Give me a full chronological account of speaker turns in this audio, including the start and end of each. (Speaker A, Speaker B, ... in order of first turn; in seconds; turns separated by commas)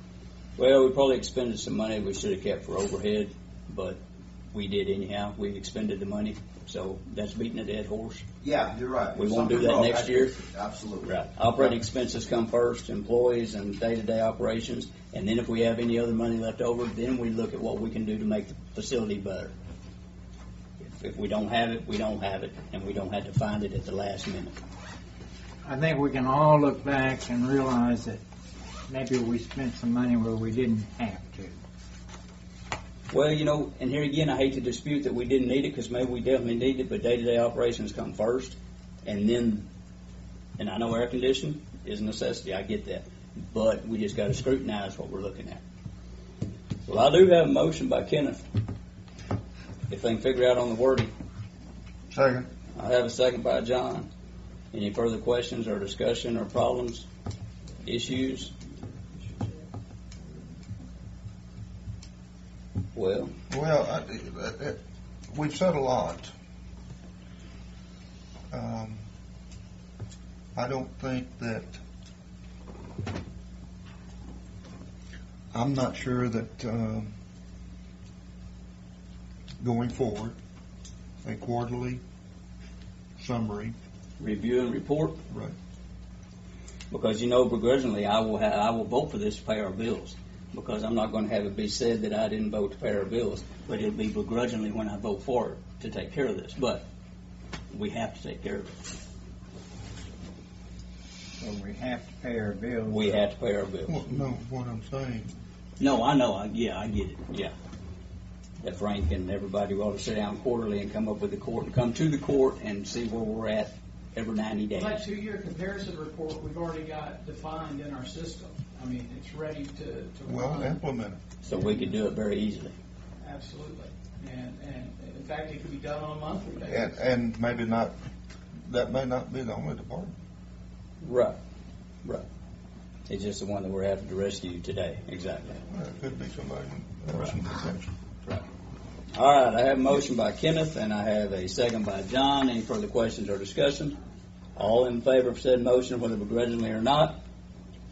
Speaker A: 0.6-4.0, Speaker A: 4.5-8.2, Speaker B: 8.4-11.2, Speaker A: 9.1-10.4, Speaker A: 11.0-19.5, Speaker A: 20.8-24.5, Speaker C: 25.6-28.2, Speaker C: 28.9-31.6, Speaker A: 33.1-39.7, Speaker A: 40.6-45.6, Speaker A: 46.9-48.4, Speaker A: 49.9-51.1, Speaker D: 52.1-52.5, Speaker A: 52.8-54.1, Speaker A: 54.7-57.1, Speaker A: 57.8-58.5, Speaker A: 63.0-63.3, Speaker D: 63.5-64.8, Speaker D: 65.3-66.3, Speaker D: 68.5-69.0, Speaker D: 70.5-71.8, Speaker D: 75.5-77.1, Speaker D: 79.6-80.4, Speaker D: 81.2-82.0, Speaker D: 83.2-83.8, Speaker A: 84.2-85.2, Speaker D: 85.3-85.5, Speaker A: 86.9-96.8, Speaker A: 97.7-98.7, Speaker C: 101.4-103.2, Speaker A: 102.9-104.1, Speaker D: 103.9-105.3, Speaker A: 105.8-107.5, Speaker A: 108.6-115.0, Speaker E: 114.7-120.8, Speaker D: 120.3-121.2, Speaker A: 121.4-122.7, Speaker E: 121.5-121.9, Speaker E: 123.2-127.0, Speaker D: 126.7-127.9, Speaker D: 128.7-130.1, Speaker A: 131.0-131.4, Speaker A: 133.1-135.6, Speaker D: 135.7-137.9, Speaker A: 139.2-143.9, Speaker A: 144.6-147.2